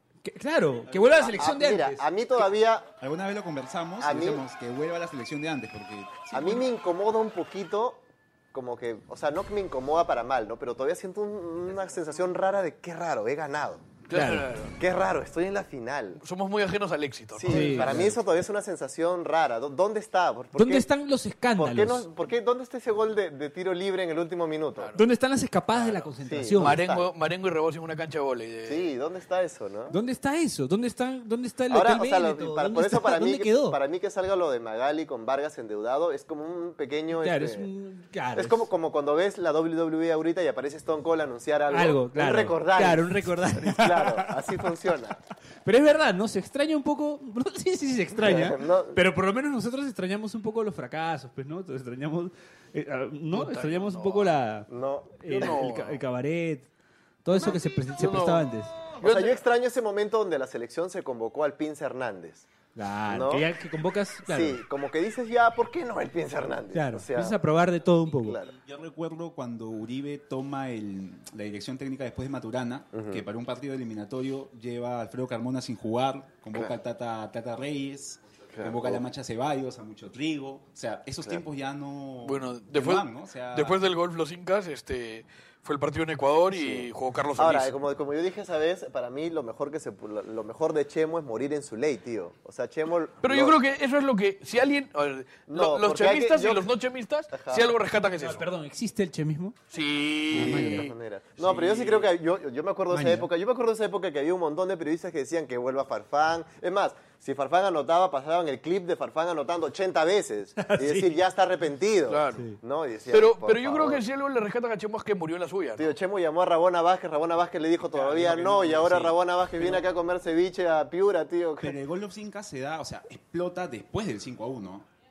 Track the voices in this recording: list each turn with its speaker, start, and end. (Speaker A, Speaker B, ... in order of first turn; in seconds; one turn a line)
Speaker A: 0.2-2.1
Speaker B: 1.0-2.9
Speaker C: 3.0-6.6
Speaker B: 4.0-4.4
Speaker B: 6.3-13.8
Speaker D: 14.1-14.8
Speaker A: 14.1-14.5
Speaker B: 14.8-16.2
Speaker D: 16.2-18.1
Speaker B: 17.3-20.9
Speaker A: 17.5-18.1
Speaker A: 20.6-22.1
Speaker B: 21.6-24.9
Speaker D: 24.8-25.0
Speaker A: 25.0-26.8
Speaker B: 25.8-27.1
Speaker D: 26.6-28.9
Speaker B: 28.7-30.0
Speaker A: 29.9-33.8
Speaker B: 31.7-37.7
Speaker A: 37.2-38.7
Speaker B: 38.3-45.2
Speaker A: 41.7-44.5
Speaker A: 45.6-54.7
Speaker B: 48.2-49.0
Speaker D: 53.3-54.3
Speaker B: 54.7-55.7
Speaker A: 55.2-56.7
Speaker D: 55.3-56.0
Speaker A: 57.2-58.7
Speaker D: 57.4-58.5
Speaker D: 59.0-59.4
Speaker B: 59.0-62.5
Speaker A: 62.8-64.6
Speaker B: 63.1-63.5
Speaker B: 64.3-67.4
Speaker A: 66.7-68.4
Speaker B: 68.2-68.5
Speaker C: 68.4-83.8
Speaker B: 72.9-73.2
Speaker B: 78.5-79.0
Speaker D: 82.2-87.7
Speaker B: 86.5-93.6
Speaker D: 93.2-98.5
Speaker B: 95.5-96.7
Speaker B: 97.3-97.8
Speaker A: 98.1-99.6
Speaker D: 99.7-102.1
Speaker A: 100.3-100.9
Speaker B: 100.3-114.0
Speaker A: 102.9-103.3
Speaker A: 110.6-111.2
Speaker D: 112.1-112.4
Speaker D: 113.1-115.9
Speaker B: 115.8-121.8
Speaker C: 117.9-119.1
Speaker C: 121.6-124.9